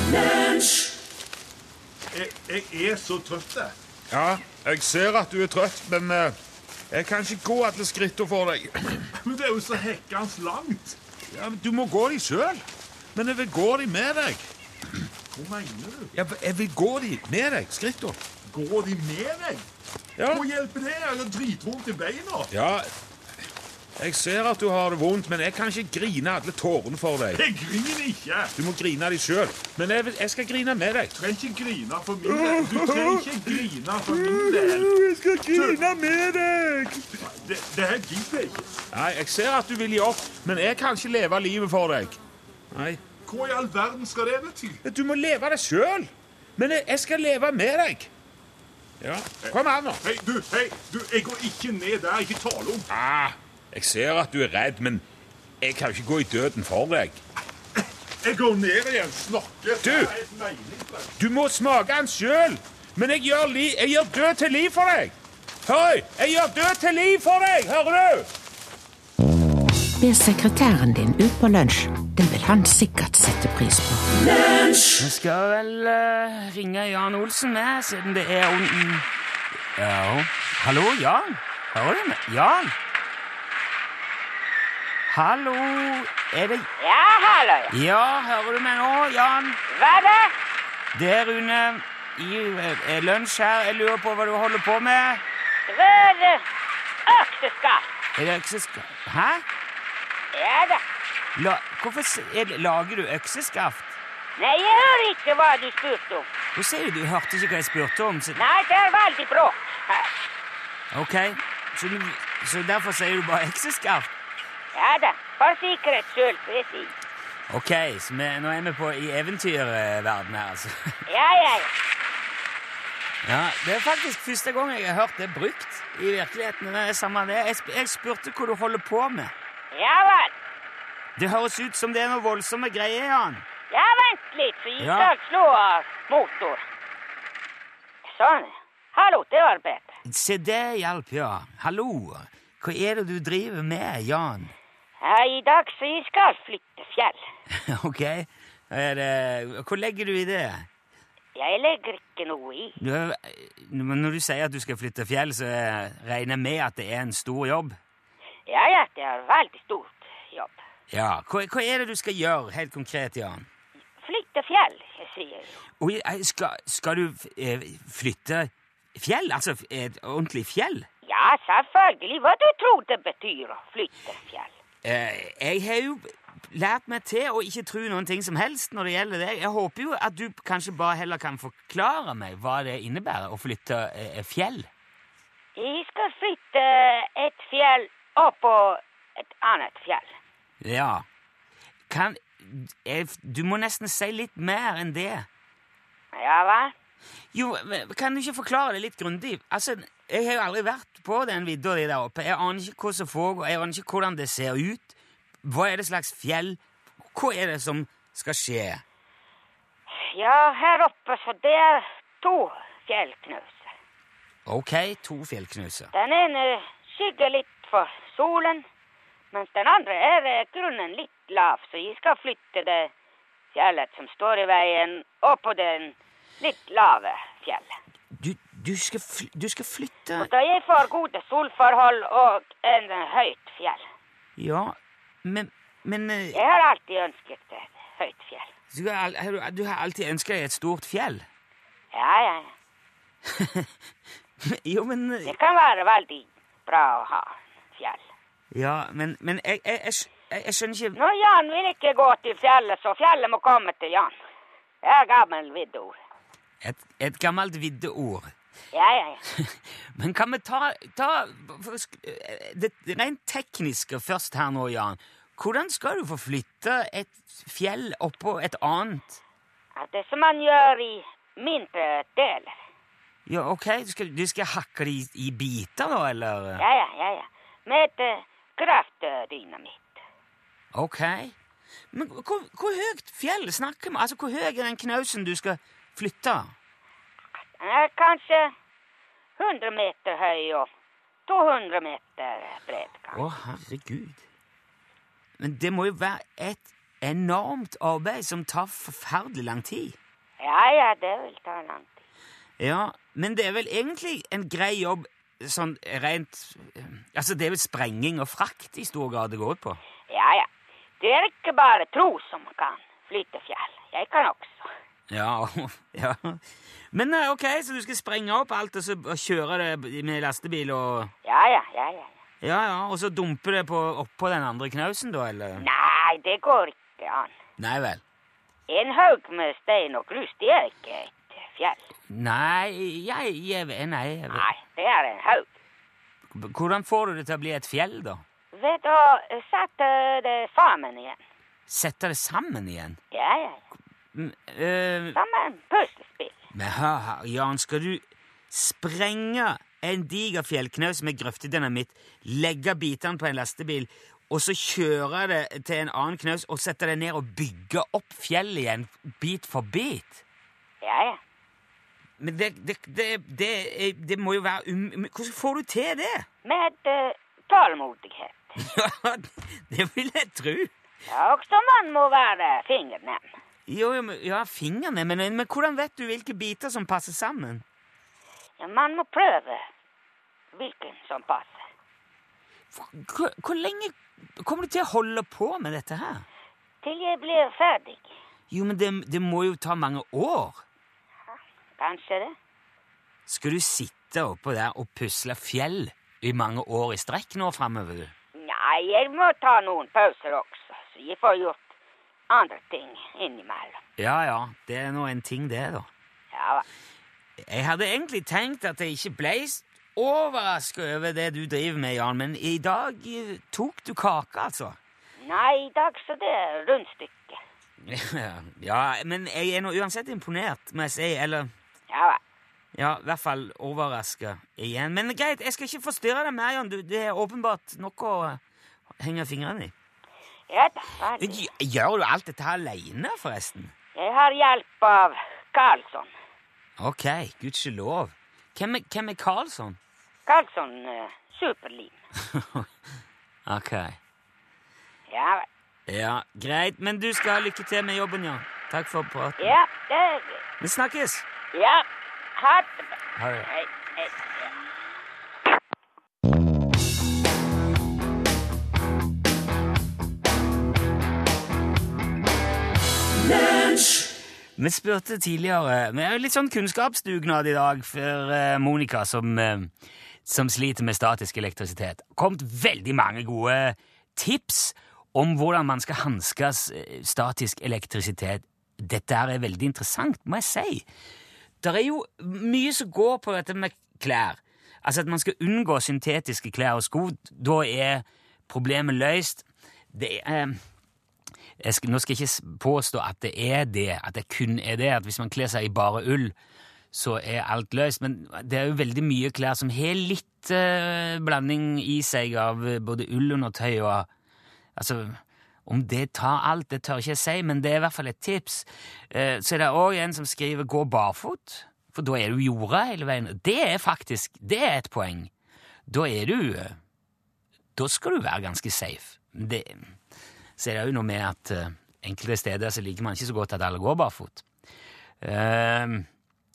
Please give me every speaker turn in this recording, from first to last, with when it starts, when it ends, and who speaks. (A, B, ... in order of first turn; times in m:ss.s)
0:02.1-0:03.7 A
0:04.1-0:06.4 B
0:06.9-0:09.0 B
0:09.2-0:11.0 A
0:11.3-0:12.6 B
0:13.2-0:14.5 B
0:15.3-0:16.1 A
0:16.1-0:18.2 B
0:18.5-0:19.7 A
0:20.2-0:20.4 B
0:20.3-0:22.5 A
0:22.5-0:22.9 B
0:24.0-0:27.4 B
0:27.4-0:28.5 A
0:28.6-0:31.2 B
0:31.2-0:34.9 A
0:32.3-0:37.0 B
0:35.5-0:35.8 A
0:37.2-0:38.7 A
0:38.9-0:42.2 B
0:42.7-0:43.0 B
0:43.2-0:44.8 A
0:44.8-0:48.1 B
0:49.0-0:50.0 B
0:49.5-0:52.9 A
0:52.9-0:55.0 B
0:55.6-0:57.2 B
0:58.2-1:01.1 A
0:59.8-1:00.1 B
1:01.2-1:08.3 B
1:10.0-1:14.1 C
1:14.9-1:19.1 D
1:19.8-1:22.7 D
1:25.1-1:26.7 D
1:26.8-1:27.7 E
1:27.7-1:29.6 D
1:29.7-1:30.3 E
1:30.9-1:35.2 D
1:35.7-1:36.5 E
1:37.1-1:37.9 E
1:38.2-1:39.4 D
1:40.3-1:40.8 E
1:41.4-1:44.0 D
1:44.4-1:46.3 E
1:46.6-1:48.4 D
1:48.4-1:50.1 E
1:50.9-1:54.1 D
1:54.7-1:56.9 E
1:57.5-2:01.0 D
2:01.1-2:01.7 E
2:03.2-2:09.3 D
2:09.7-2:10.3 E
2:11.2-2:13.4 D
2:13.7-2:16.6 E
2:14.8-2:15.1 D
2:18.1-2:20.0 E
2:20.0-2:24.5 D
2:25.0-2:27.2 E
2:27.5-2:30.7 D
2:31.4-2:32.8 E
2:32.8-2:37.8 D
2:38.5-2:40.6 E
2:40.9-2:43.5 D
2:44.0-2:45.6 E
2:45.8-2:50.9 D
2:51.0-2:54.5 E
2:54.8-3:04.7 D
3:05.6-3:10.2 E
3:10.6-3:11.1 D
3:11.9-3:15.3 D
3:16.1-3:16.7 E
3:17.3-3:26.6 D
3:27.1-3:28.8 D
3:30.0-3:33.7 E
3:34.5-3:35.9 D
3:35.9-3:38.6 E
3:39.3-3:42.9 E
3:43.5-3:47.8 E
3:48.1-3:50.3 D
3:50.2-3:53.9 E
3:54.4-3:56.4 D
3:56.3-3:58.5 E
3:58.7-4:01.3 D
4:01.9-4:02.5 E
4:03.3-4:03.7 D
4:04.4-4:05.3 D
4:05.2-4:08.1 E
4:08.5-4:11.0 D
4:11.0-4:14.2 E
4:14.8-4:16.0 E
4:16.6-4:18.3 D
4:18.7-4:19.2 E
4:19.3-4:29.2 D
4:29.8-4:32.6 E
4:33.3-4:36.6 D
4:36.6-4:40.0 E
4:40.7-4:41.4 D
4:41.9-4:46.5 D
4:47.6-4:48.5 E
4:49.4-4:50.7 E
4:51.3-4:53.2 E
4:53.1-4:54.2 D
4:55.4-5:00.0 D
5:00.4-5:02.0 E
5:02.6-5:09.8 D
5:10.1-5:10.5 E
5:11.0-5:14.7 E
5:15.1-5:21.1 D
5:21.2-5:22.1 E
5:22.4-5:25.6 D
5:25.6-5:27.3 E
5:27.6-5:28.0 D
5:28.7-5:31.9 E
5:32.1-5:34.4 D
5:34.3-5:35.5 E
5:36.3-5:38.2 D
5:38.5-5:41.2 E
5:41.7-5:43.0 D
5:43.1-5:43.6 E
5:44.1-5:45.2 D
5:45.2-5:46.4 E
5:46.5-6:00.2 D
6:00.8-6:01.2 E
6:02.2-6:06.3 D
6:06.4-6:08.6 E
6:08.6-6:10.7 D
6:11.1-6:13.2 E
6:13.7-6:17.6 D
6:18.6-6:19.6 E
6:20.5-6:21.6 E
6:22.7-6:26.3 D
6:26.8-6:28.1 E
6:28.5-6:30.6 D
6:31.8-6:32.4 E
6:33.3-6:38.1 D
6:38.4-6:41.6 E
6:42.3-6:43.8 E
6:44.0-6:45.9 D
6:46.3-6:46.6 E
6:47.4-6:54.8 D
6:55.2-6:57.4 E
6:57.8-7:01.5 D
7:01.9-7:02.2 E
7:02.7-7:08.4 D
7:09.0-7:09.7 D
7:10.5-7:11.4 E
7:11.2-7:13.7 D
7:14.0-7:16.1 E
7:16.8-7:19.8 D
7:20.3-7:22.0 E
7:22.3-7:22.7 D
7:23.5-7:24.0 D
7:25.1-7:25.5 E
7:25.9-7:29.4 D
7:29.4-7:30.4 E
7:30.6-7:31.3 D
7:31.5-7:34.6 E
7:33.2-7:33.5 D
7:44.6-7:49.7 D
7:50.2-8:00.9 D
8:01.6-8:10.6 D
8:11.6-8:16.4 D
8:16.9-8:24.1 D
8:24.8-8:35.3 D
8:35.9-8:36.8 D
8:37.8-8:39.8 D
8:40.6-8:44.4 D
8:45.2-8:46.1 D